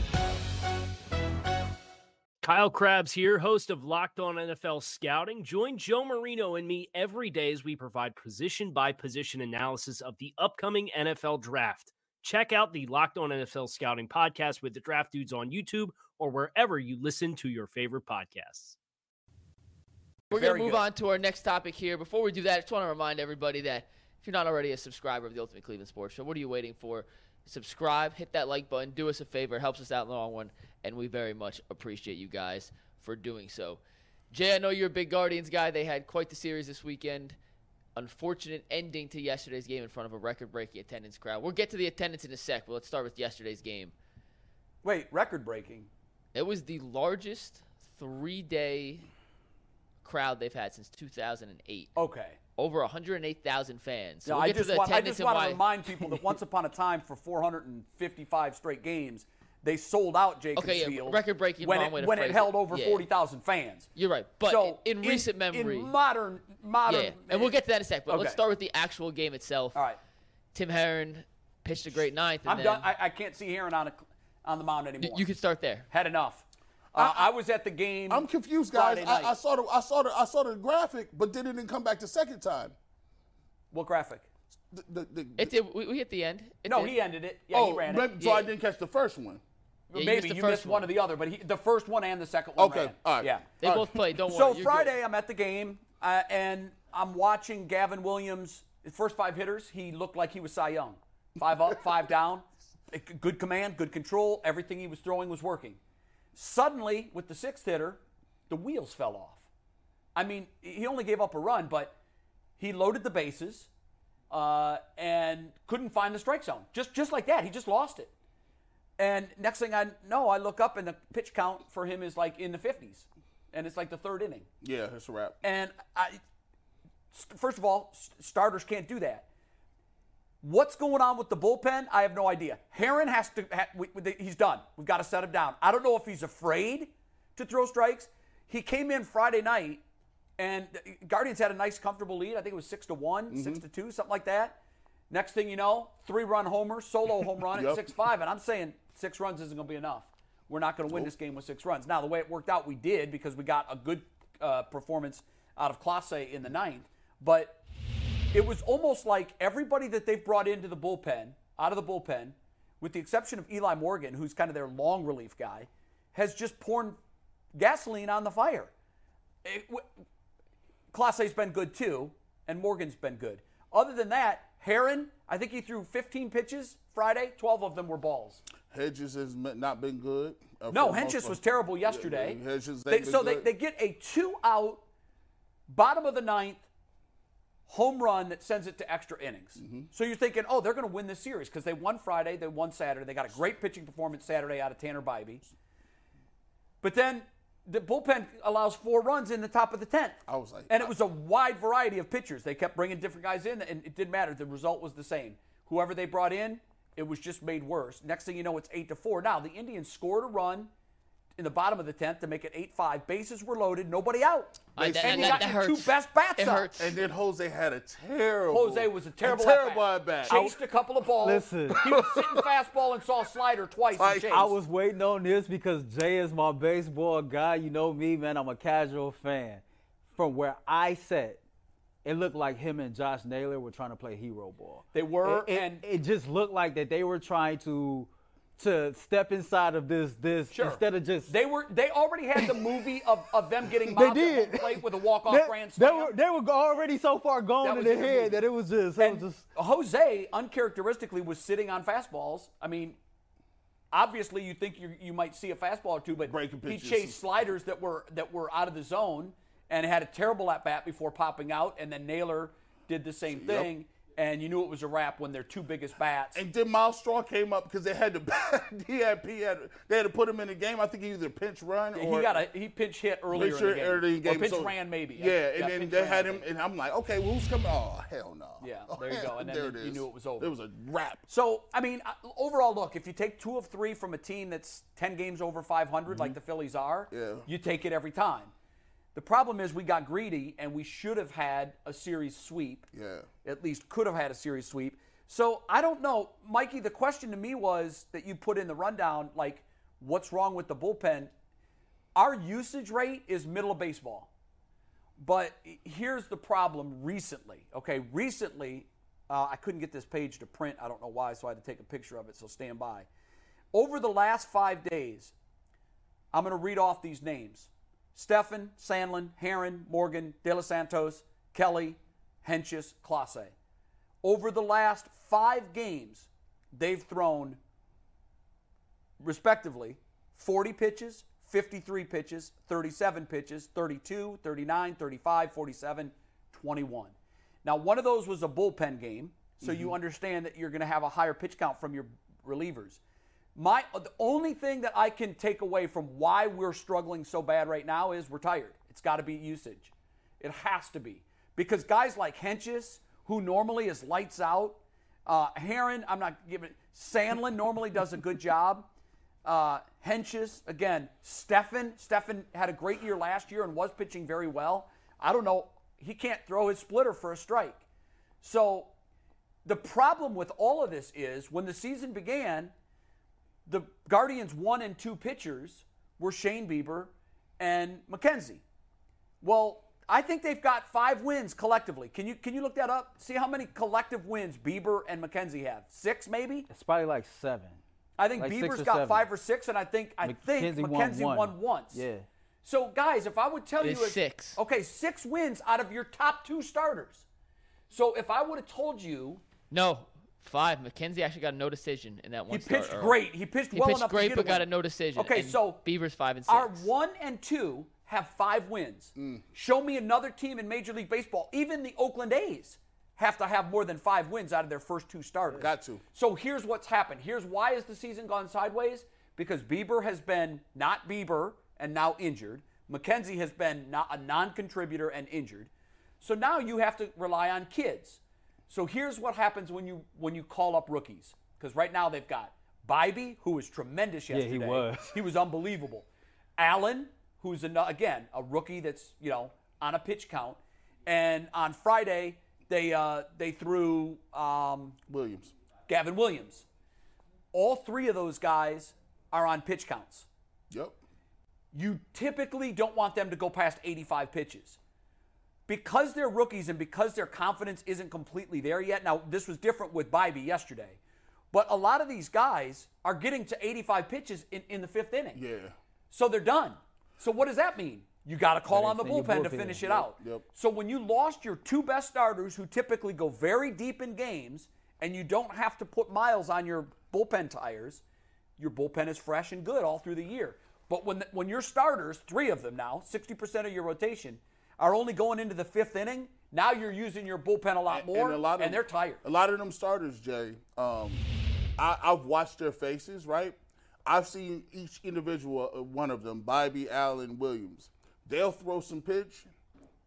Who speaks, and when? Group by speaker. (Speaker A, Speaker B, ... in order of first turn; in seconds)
Speaker A: 2.4-18.8
Speaker B: 20.3-20.9, 44.8-45.9, 52.0-52.4, 54.2-63.9, 64.5-68.4, 69.7-70.0, 72.5-75.3, 75.9-79.3, 83.7-84.3, 86.7-88.1, 89.9-93.5, 94.2-105.8, 106.3-109.5, 110.2-112.0, 112.6-113.7, 114.3-118.1, 119.0-124.5, 125.4-126.2, 127.1-129.3, 130.4-139.8, 140.4-144.6, 145.1-157.6, 158.3-167.0, 167.6-168.7, 169.4-169.9, 170.9-178.4, 180.7-184.8, 185.7-186.7, 187.7-195.5, 196.8-210.7, 211.4-216.7, 218.5-224.5, 234.9-235.8, 240.5-246.1, 247.6-248.4, 249.0-253.0, 253.9-266.4, 271.9-276.4, 278.6-280.5, 281.3-288.5, 289.1-292.9, 293.4-301.3, 302.1-304.3, 305.2-313.1, 313.7-315.3, 316.3-323.5, 324.2-327.6, 329.2-343.0, 343.6-358.9, 359.4-367.8, 368.4-368.9, 369.6-372.7, 373.7-378.6, 379.4-386.7, 388.2-392.0, 392.6-397.2, 397.9-399.4, 402.5-405.8, 406.5-425.7, 426.2-436.1, 436.6-445.0, 445.9-446.7, 447.5-450.3, 451.7-454.8, 455.7-461.0, 461.5-465.4, 466.1-478.0, 478.6-489.2
Speaker C: 20.3-37.4, 38.0-43.9, 46.3-49.1, 50.0-51.9, 52.6-56.2, 60.6-63.0, 64.0-65.9, 66.9-69.8, 70.5-72.9, 75.0-75.9, 85.4-87.0, 88.2-88.5, 89.9-90.9, 93.6-94.9, 214.8-217.0, 393.8-394.6, 399.7-406.9
Speaker D: 77.0-77.3, 78.1-82.8, 84.7-85.5, 87.5-89.4, 92.6-94.0, 124.6-125.4, 143.3-143.6, 147.5-147.9, 178.7-183.5, 189.6-189.9, 200.3-200.9, 214.8-215.5, 216.8-220.6, 221.7-222.4, 223.9-224.5, 256.2-257.2, 263.3-263.7, 266.4-272.5, 273.3-281.3, 286.1-286.4, 287.1-287.5, 292.9-293.3, 339.6-340.0, 409.2-409.4, 415.5-416.0, 445.1-445.5, 450.7-451.0, 465.3-465.8, 469.8-470.4, 487.9-491.3, 491.8-499.5
Speaker E: 221.2-221.8, 224.3-231.4, 232.0-241.4, 243.9-249.5, 386.7-387.8, 388.4-389.2, 390.2-392.3, 434.3-435.2, 468.7-469.9